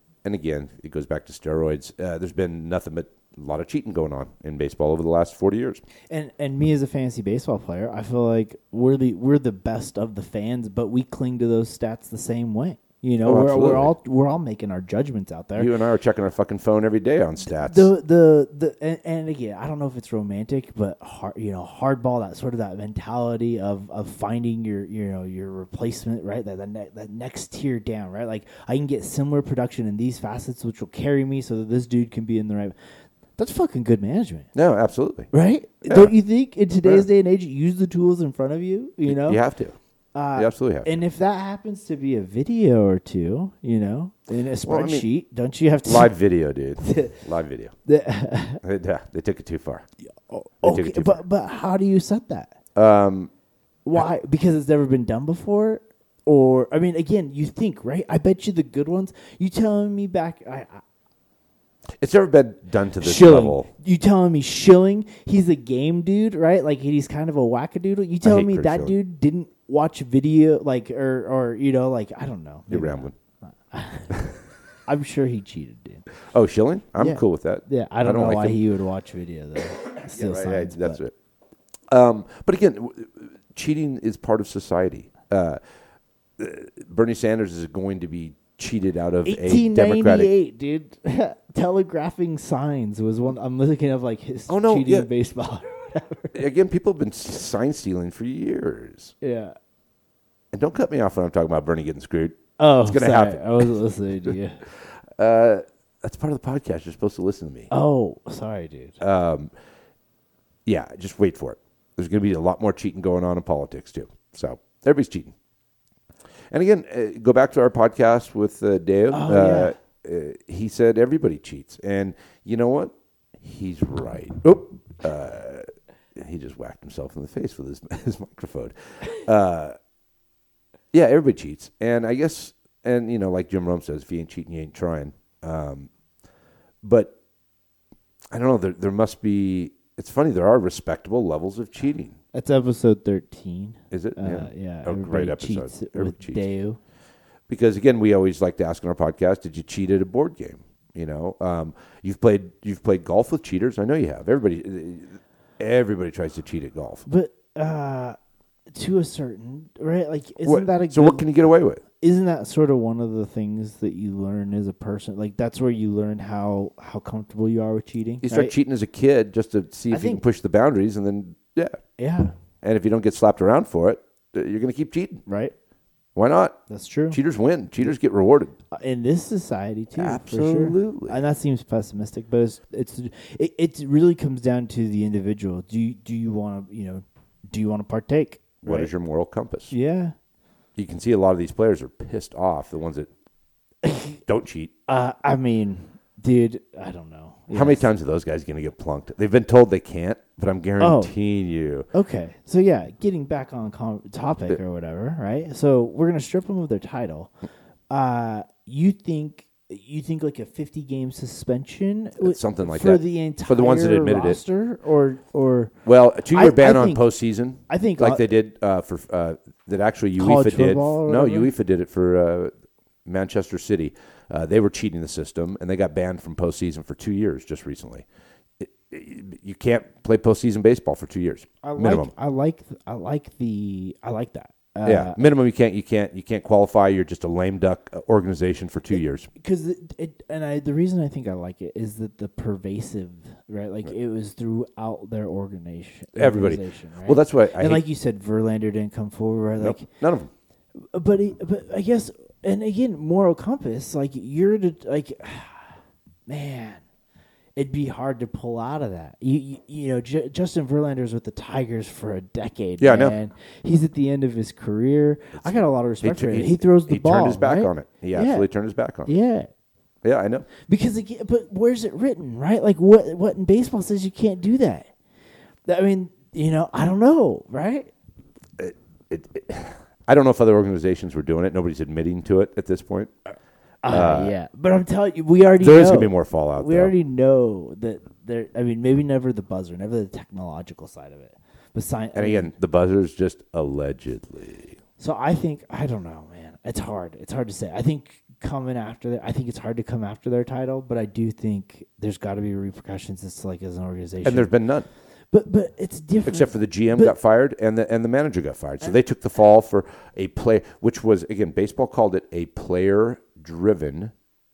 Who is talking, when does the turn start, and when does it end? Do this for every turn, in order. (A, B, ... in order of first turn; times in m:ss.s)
0:00.2-0:05.8 A
0:06.1-0:15.7 B
0:13.2-0:13.9 A
0:15.6-0:17.9 A
0:17.4-0:32.8 B
0:33.4-0:34.5 B
0:34.5-0:35.3 A
0:35.3-0:39.4 B
0:35.9-0:36.1 A
0:39.0-0:39.8 A
0:40.1-0:46.1 B
0:40.4-0:41.0 A
0:44.6-0:45.1 A
0:45.8-0:47.7 A
0:46.8-0:47.2 B
0:47.8-0:48.6 B
0:48.6-0:49.8 A
0:50.3-0:52.5 B
0:50.6-0:51.2 A
0:52.7-0:53.3 A
0:53.8-1:00.8 B
1:02.0-1:03.7 A
1:03.0-1:14.3 B
1:08.2-1:08.9 A
1:12.7-1:13.1 A
1:14.9-1:16.1 B
1:16.3-1:18.6 A
1:17.0-1:21.0 B
1:20.1-1:21.1 A
1:21.9-1:25.6 A
1:26.4-1:30.3 A
1:29.2-1:36.4 B
1:34.5-1:35.1 A
1:36.3-1:39.1 A
1:39.2-1:39.6 B
1:40.5-1:43.7 A
1:42.6-1:44.6 B
1:44.8-1:47.7 A
1:47.7-1:49.0 B
1:49.0-1:49.5 A
1:50.6-1:55.3 A
1:56.5-2:09.8 A
1:59.1-1:59.7 B
2:10.9-2:15.9 A
2:16.8-2:17.1 A
2:18.3-2:22.2 A
2:22.3-2:26.8 B
2:23.9-2:26.4 A
2:27.5-2:37.0 A
2:37.0-2:38.2 B
2:38.7-2:41.3 B
2:40.4-2:41.8 A
2:42.0-2:48.5 B
2:48.2-2:51.8 A
2:49.9-2:50.2 B
2:52.0-2:52.3 B
2:52.6-2:55.2 A
2:55.3-2:55.5 B
2:56.1-2:56.6 A
2:56.7-2:57.2 B
2:57.1-2:58.5 A
2:58.7-3:08.9 B
2:59.9-3:01.2 A
3:08.6-3:09.7 A
3:09.7-3:10.1 B
3:10.8-3:13.1 A
3:13.8-3:14.2 B
3:14.3-3:14.7 A
3:14.9-3:17.9 B
3:17.5-3:21.9 A
3:20.8-3:21.1 B
3:21.9-3:27.3 B
3:27.9-3:35.7 B
3:32.2-3:34.4 A
3:35.8-3:42.5 A
3:36.3-3:37.0 B
3:37.7-3:38.2 B
3:40.2-3:41.5 B
3:43.0-3:48.0 A
3:48.6-3:52.1 A
3:51.6-3:55.2 B
3:54.8-3:59.3 A
3:59.4-4:09.9 B
4:06.2-4:07.8 A
4:09.6-4:10.3 A
4:10.8-4:16.8 B
4:17.6-4:28.5 B
4:22.8-4:23.2 A
4:25.4-4:29.1 A
4:29.0-4:29.5 B
4:30.0-4:30.5 A
4:30.6-4:34.9 B
4:35.6-4:37.9 B
4:38.6-4:43.1 A
4:43.8-4:52.5 B
4:43.9-4:44.3 A
4:45.6-4:46.9 A
4:52.1-4:54.8 A
4:55.0-5:04.6 B
5:04.2-5:04.9 A
5:05.3-5:07.1 B
5:06.2-5:14.1 A